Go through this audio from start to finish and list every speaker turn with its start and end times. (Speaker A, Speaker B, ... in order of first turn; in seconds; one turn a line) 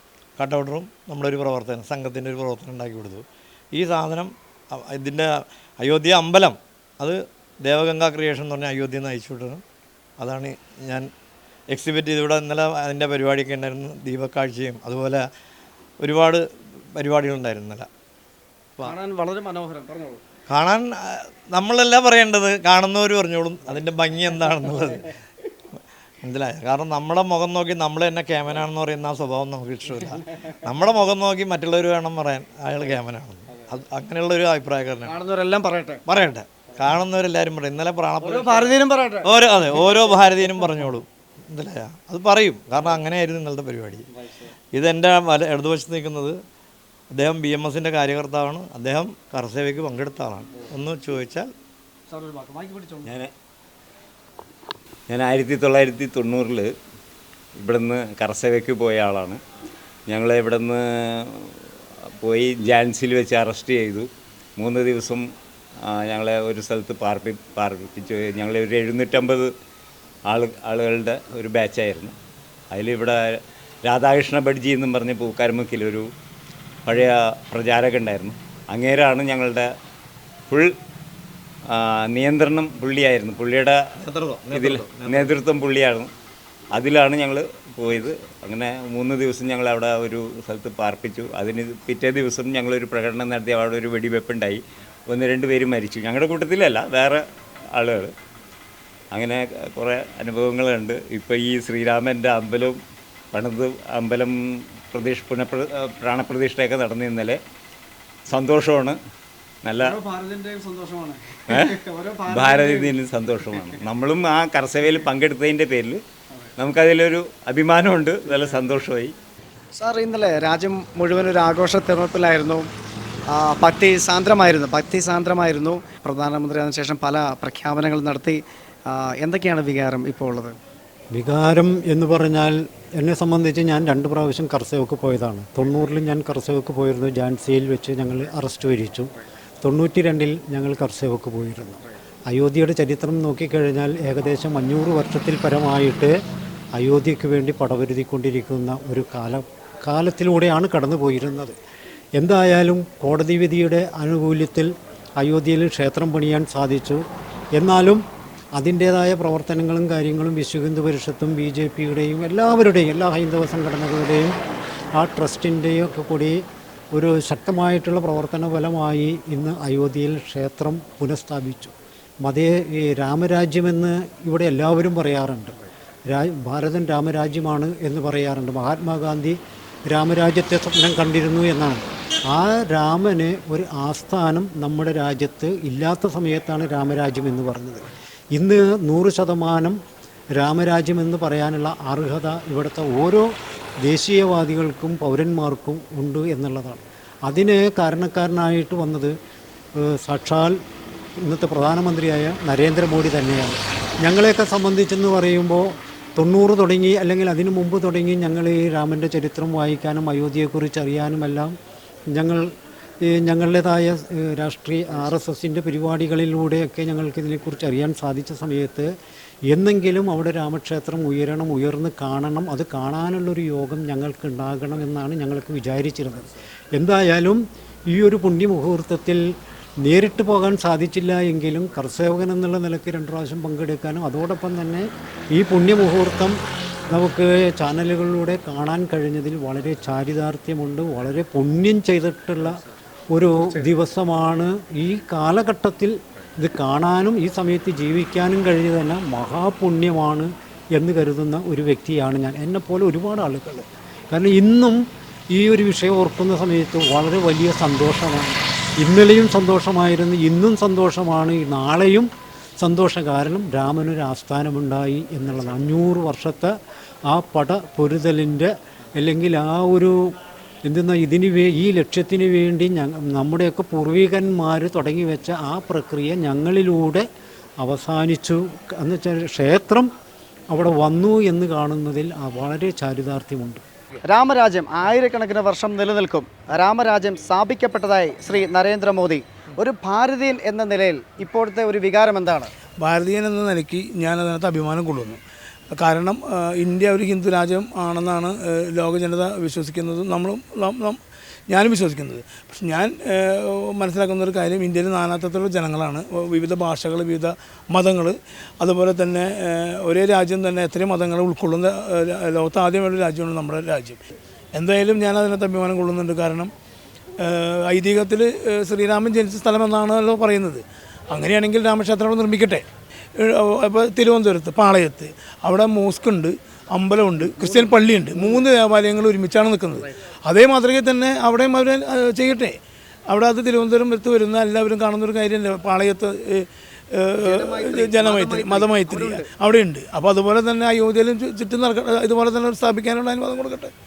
Speaker A: 0.4-9.6
Speaker A: 10.2-11.1
Speaker A: 11.7-15.2
Speaker A: 16.0-16.4
Speaker A: 17.0-17.9
Speaker B: 18.8-20.2
Speaker A: 20.5-25.1
Speaker A: 26.2-35.1
Speaker B: 35.0-36.0
Speaker A: 36.1-44.0
Speaker B: 38.2-39.3
Speaker A: 44.7-46.4
Speaker A: 47.1-51.5
Speaker C: 53.0-53.3
Speaker C: 55.1-56.7
Speaker C: 57.6-59.4
Speaker C: 60.1-61.5
Speaker C: 62.2-65.2
Speaker C: 65.9-69.5
Speaker C: 70.3-72.1
Speaker C: 72.7-76.1
Speaker C: 76.8-79.7
Speaker C: 81.7-83.8
Speaker A: 84.0-85.3
Speaker C: 84.5-86.1
Speaker C: 86.7-98.1
Speaker C: 99.1-102.8
Speaker C: 103.3-104.4
Speaker C: 104.9-107.4
Speaker C: 108.2-109.0
Speaker C: 109.6-110.1
Speaker B: 110.3-110.8
Speaker C: 111.5-116.0
Speaker B: 112.1-112.6
Speaker C: 116.6-119.1
Speaker B: 119.7-122.7
Speaker B: 123.3-130.6
Speaker D: 131.1-139.1
Speaker D: 139.6-141.8
Speaker D: 142.3-146.1
Speaker D: 146.8-151.6
Speaker D: 152.2-157.0
Speaker D: 157.6-158.0
Speaker D: 158.6-164.3
Speaker D: 164.9-166.4
Speaker D: 166.9-187.8
Speaker D: 188.3-189.8
Speaker D: 190.3-193.3
Speaker D: 193.8-199.1
Speaker D: 199.8-200.6
Speaker D: 201.2-211.5
Speaker D: 212.1-212.5
Speaker D: 213.0-218.9
Speaker D: 219.5-229.2
Speaker D: 229.8-236.4
Speaker D: 236.9-254.8
Speaker D: 255.3-262.1
Speaker D: 262.6-266.5
Speaker D: 267.1-270.1
Speaker D: 270.6-277.1
Speaker D: 277.6-279.9
Speaker D: 280.5-283.6
Speaker B: 284.0-292.5
Speaker E: 292.8-295.2
Speaker E: 295.7-314.0
Speaker E: 314.5-316.5
Speaker E: 317.2-322.6
Speaker E: 323.2-332.6
Speaker B: 327.4-328.4
Speaker E: 333.1-343.7
Speaker B: 337.2-339.3